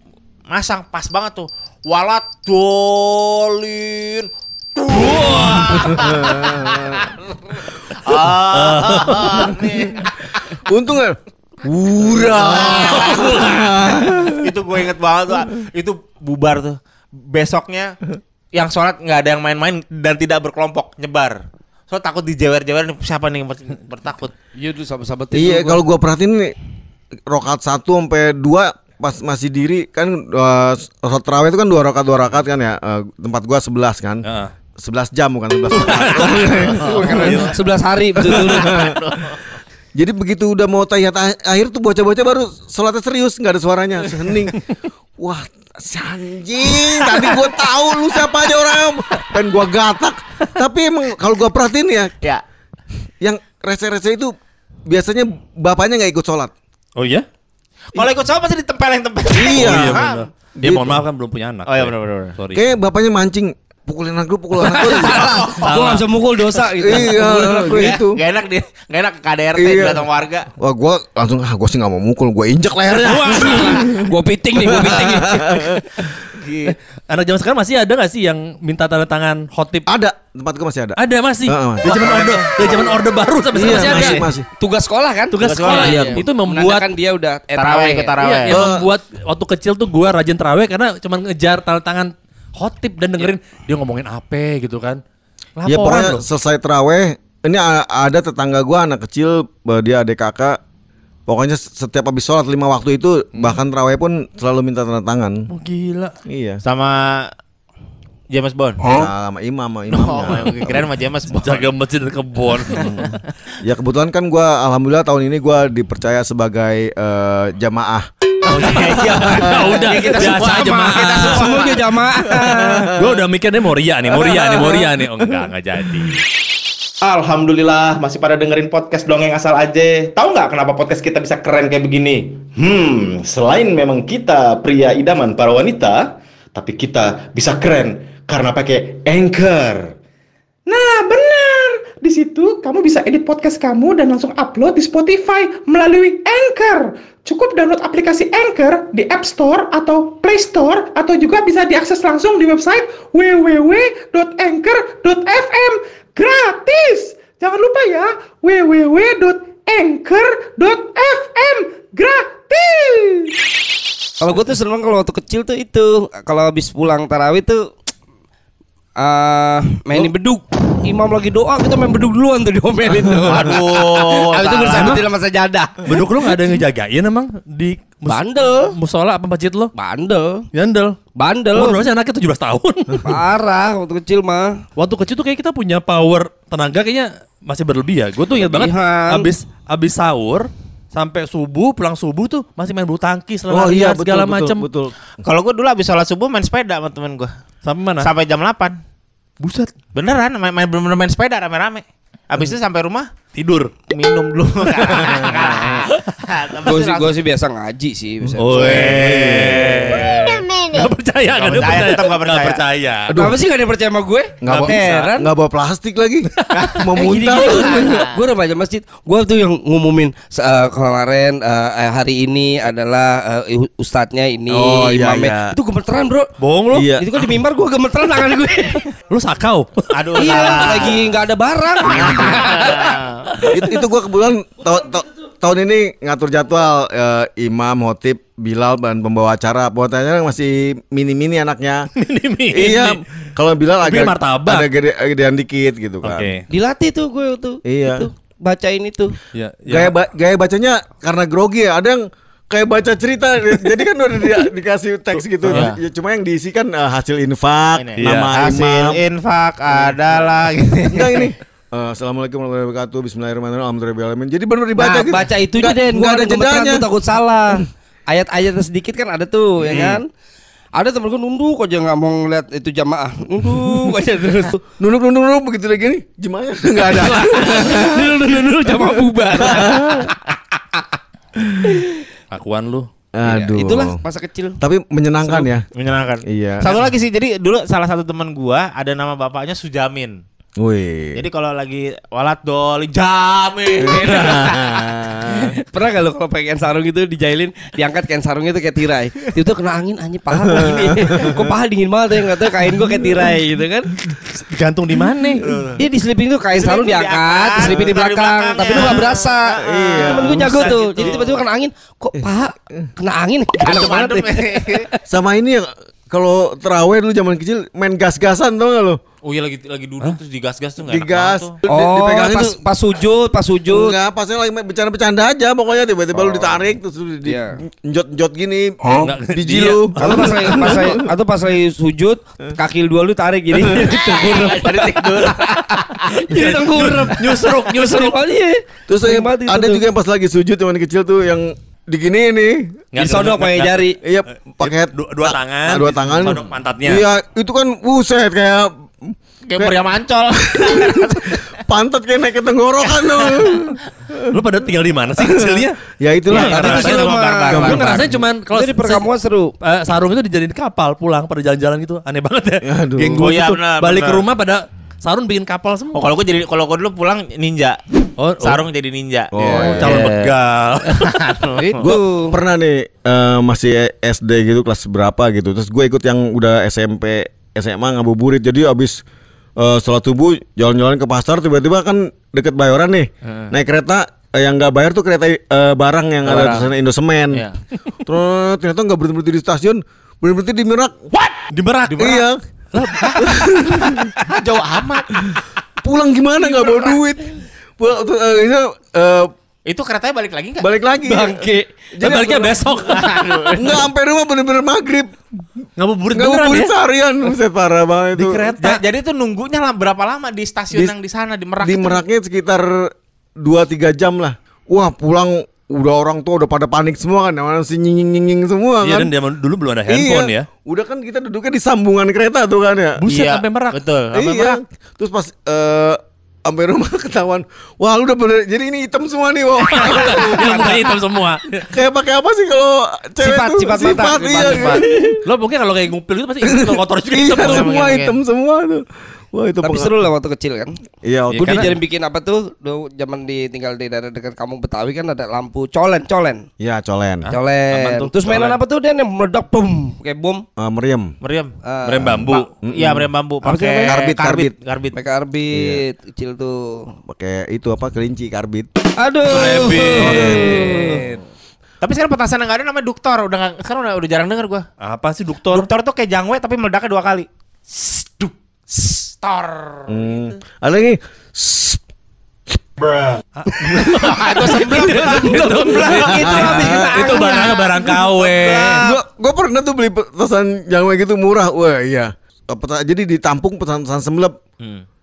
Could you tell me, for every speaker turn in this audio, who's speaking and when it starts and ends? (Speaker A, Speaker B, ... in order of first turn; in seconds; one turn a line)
Speaker A: 0.5-10.6
Speaker B: 4.9-6.1
Speaker C: 6.0-6.9
Speaker B: 8.5-9.5
Speaker C: 10.5-14.4
Speaker A: 12.2-13.5
Speaker B: 12.5-13.6
Speaker A: 14.3-16.8
Speaker A: 17.3-18.0
Speaker A: 18.5-21.4
Speaker A: 21.9-24.3
Speaker D: 24.6-25.8
Speaker C: 25.3-26.5
Speaker C: 27.3-34.2
Speaker B: 34.2-34.5
Speaker C: 34.8-37.5
Speaker B: 35.7-37.5
Speaker A: 36.5-37.4
Speaker D: 36.7-38.9
Speaker C: 38.2-39.0
Speaker A: 38.4-39.6
Speaker C: 39.9-52.1
Speaker A: 46.8-47.5
Speaker C: 53.2-54.3
Speaker C: 54.9-56.5
Speaker B: 57.0-57.2
Speaker A: 57.9-60.2
Speaker C: 59.3-60.0
Speaker B: 59.4-62.6
Speaker C: 60.6-61.0
Speaker A: 61.7-62.3
Speaker C: 62.5-65.5
Speaker D: 64.6-68.0
Speaker A: 65.1-65.7
Speaker B: 65.6-66.0
Speaker C: 66.8-68.2
Speaker A: 67.7-70.5
Speaker C: 69.5-70.0
Speaker C: 70.6-74.1
Speaker B: 73.0-73.8
Speaker D: 73.3-75.8
Speaker C: 74.6-76.2
Speaker A: 76.2-76.8
Speaker B: 77.1-79.9
Speaker C: 79.9-82.4
Speaker B: 81.0-84.3
Speaker C: 83.5-84.5
Speaker A: 84.0-84.2
Speaker D: 84.6-88.2
Speaker B: 85.3-86.9
Speaker A: 85.4-86.2
Speaker C: 85.7-86.2
Speaker A: 87.5-88.6
Speaker B: 88.2-95.0
Speaker C: 88.5-88.9
Speaker B: 95.6-96.2
Speaker C: 95.6-100.6
Speaker C: 101.3-105.5
Speaker B: 103.3-103.6
Speaker B: 105.5-106.1
Speaker C: 106.2-106.6
Speaker A: 106.6-107.3
Speaker A: 108.3-108.9
Speaker C: 108.9-110.8
Speaker A: 109.9-111.7
Speaker B: 111.3-113.2
Speaker A: 112.8-113.0
Speaker C: 112.8-113.1
Speaker C: 113.6-118.0
Speaker A: 118.4-120.6
Speaker B: 118.5-121.7
Speaker C: 119.2-120.0
Speaker D: 119.7-123.0
Speaker C: 122.4-123.2
Speaker B: 122.6-126.2
Speaker D: 124.1-124.8
Speaker A: 127.0-139.9
Speaker E: 140.7-163.3
Speaker D: 164.2-167.6
Speaker D: 169.0-176.0
Speaker A: 173.3-175.0
Speaker B: 174.7-175.0
Speaker B: 175.8-179.7
Speaker D: 178.1-178.7
Speaker D: 179.7-180.4
Speaker B: 180.5-180.9
Speaker D: 181.2-181.8
Speaker B: 181.5-183.1
Speaker D: 183.0-184.6
Speaker B: 184.8-194.6
Speaker D: 188.4-189.3
Speaker C: 193.5-194.9
Speaker A: 195.2-197.3
Speaker B: 197.6-198.1
Speaker A: 198.0-198.7
Speaker B: 199.4-199.7
Speaker A: 199.9-203.1
Speaker B: 203.3-203.9
Speaker A: 203.9-207.1
Speaker B: 204.8-206.0
Speaker D: 206.6-208.9
Speaker B: 208.4-213.1
Speaker C: 208.4-209.7
Speaker A: 208.5-212.6
Speaker C: 213.1-213.4
Speaker D: 213.1-215.3
Speaker C: 214.4-218.0
Speaker B: 214.4-215.1
Speaker A: 214.7-215.1
Speaker B: 216.3-216.9
Speaker A: 216.5-216.8
Speaker D: 216.9-226.3
Speaker A: 217.4-218.1
Speaker C: 224.5-225.6
Speaker B: 226.4-226.9
Speaker C: 226.7-227.2
Speaker D: 226.9-228.8
Speaker B: 229.1-230.8
Speaker A: 229.9-231.0
Speaker D: 230.2-232.9
Speaker A: 232.3-233.3
Speaker C: 233.5-241.9
Speaker B: 241.9-243.0
Speaker C: 242.5-246.3
Speaker B: 243.8-244.7
Speaker B: 246.0-246.4
Speaker D: 246.5-249.1
Speaker C: 247.6-248.1
Speaker B: 249.3-249.9
Speaker C: 249.7-259.0
Speaker B: 255.1-255.7
Speaker A: 255.5-255.8
Speaker A: 257.8-261.3
Speaker B: 257.9-258.3
Speaker C: 260.9-266.8
Speaker D: 264.8-270.1
Speaker B: 269.6-270.0
Speaker D: 270.7-274.6
Speaker C: 274.8-278.1
Speaker D: 276.8-280.8
Speaker C: 279.4-280.1
Speaker C: 281.4-281.8
Speaker B: 282.3-282.9
Speaker C: 283.1-284.0
Speaker D: 283.4-284.6
Speaker C: 284.6-285.6
Speaker A: 285.3-290.2
Speaker C: 286.3-286.7
Speaker C: 290.6-291.2
Speaker A: 291.1-294.8
Speaker C: 293.8-295.5
Speaker D: 293.9-294.6
Speaker D: 295.3-303.9
Speaker C: 300.3-301.4
Speaker B: 304.4-305.4
Speaker A: 305.4-305.8
Speaker D: 305.8-315.0
Speaker A: 306.5-311.4
Speaker C: 307.6-307.9
Speaker C: 309.6-310.7
Speaker B: 310.3-310.7
Speaker A: 313.6-314.9
Speaker C: 315.1-319.0
Speaker A: 319.2-321.6
Speaker C: 320.9-322.6
Speaker D: 321.6-324.0
Speaker C: 323.7-331.0
Speaker D: 326.1-326.6
Speaker D: 327.2-327.6
Speaker B: 328.9-330.9
Speaker D: 330.0-339.9
Speaker C: 333.5-333.9
Speaker A: 333.9-336.2
Speaker B: 336.3-338.2
Speaker C: 338.9-342.8
Speaker B: 342.9-343.9
Speaker D: 342.9-343.9
Speaker C: 344.0-349.8
Speaker B: 344.6-347.1
Speaker A: 349.4-351.6
Speaker C: 350.5-354.4
Speaker A: 352.8-353.7
Speaker B: 354.3-355.8
Speaker C: 355.2-356.7
Speaker B: 356.3-359.1
Speaker A: 356.3-357.9
Speaker D: 356.5-359.5
Speaker C: 357.5-358.2
Speaker B: 359.6-366.1
Speaker C: 362.6-363.2
Speaker A: 363.2-364.3
Speaker A: 365.9-367.8
Speaker B: 368.2-368.6
Speaker A: 368.4-370.3
Speaker C: 369.3-370.0
Speaker B: 369.3-371.1
Speaker A: 370.9-371.8
Speaker D: 371.6-372.4
Speaker C: 371.8-379.0
Speaker C: 379.6-387.4
Speaker A: 383.2-383.5
Speaker A: 386.2-386.7
Speaker A: 387.3-387.6
Speaker C: 388.1-391.0
Speaker B: 391.5-393.2
Speaker C: 392.0-392.4
Speaker A: 392.7-393.5
Speaker C: 393.2-394.1
Speaker A: 394.2-395.2
Speaker C: 395.2-399.3
Speaker B: 396.4-396.8
Speaker A: 399.6-400.7
Speaker C: 400.6-402.8
Speaker D: 401.0-401.7
Speaker B: 402.0-403.8
Speaker A: 402.8-403.8
Speaker C: 403.6-405.1
Speaker B: 405.8-406.7
Speaker C: 406.1-408.5
Speaker B: 408.1-408.8
Speaker A: 408.6-412.0
Speaker C: 411.6-419.1
Speaker B: 418.8-420.4
Speaker C: 419.9-423.0
Speaker B: 423.0-423.8
Speaker A: 423.0-424.6
Speaker C: 424.1-430.9
Speaker B: 429.6-431.6
Speaker C: 431.6-435.2
Speaker D: 433.2-435.2
Speaker B: 434.4-437.9
Speaker C: 436.4-439.9
Speaker A: 437.3-438.2
Speaker D: 439.6-440.7
Speaker C: 441.0-441.7
Speaker B: 441.3-441.8
Speaker D: 441.4-446.4
Speaker C: 446.6-447.3
Speaker B: 447.2-448.6
Speaker D: 447.3-450.4
Speaker C: 450.6-451.1
Speaker A: 451.2-451.5
Speaker D: 451.6-452.2
Speaker B: 451.9-452.5
Speaker A: 452.2-455.0
Speaker C: 452.6-453.1
Speaker D: 453.4-454.0
Speaker C: 453.8-454.5
Speaker D: 454.9-456.9
Speaker C: 455.5-455.8
Speaker C: 457.1-458.7
Speaker D: 459.0-461.0
Speaker B: 459.3-461.2
Speaker C: 459.9-460.7
Speaker A: 461.8-464.6
Speaker B: 464.8-465.7
Speaker A: 465.5-470.3
Speaker C: 469.9-471.8
Speaker B: 473.4-478.9
Speaker A: 473.8-476.4
Speaker D: 474.7-477.6
Speaker C: 476.1-477.1
Speaker A: 477.0-478.9
Speaker C: 478.8-484.4
Speaker A: 484.6-484.8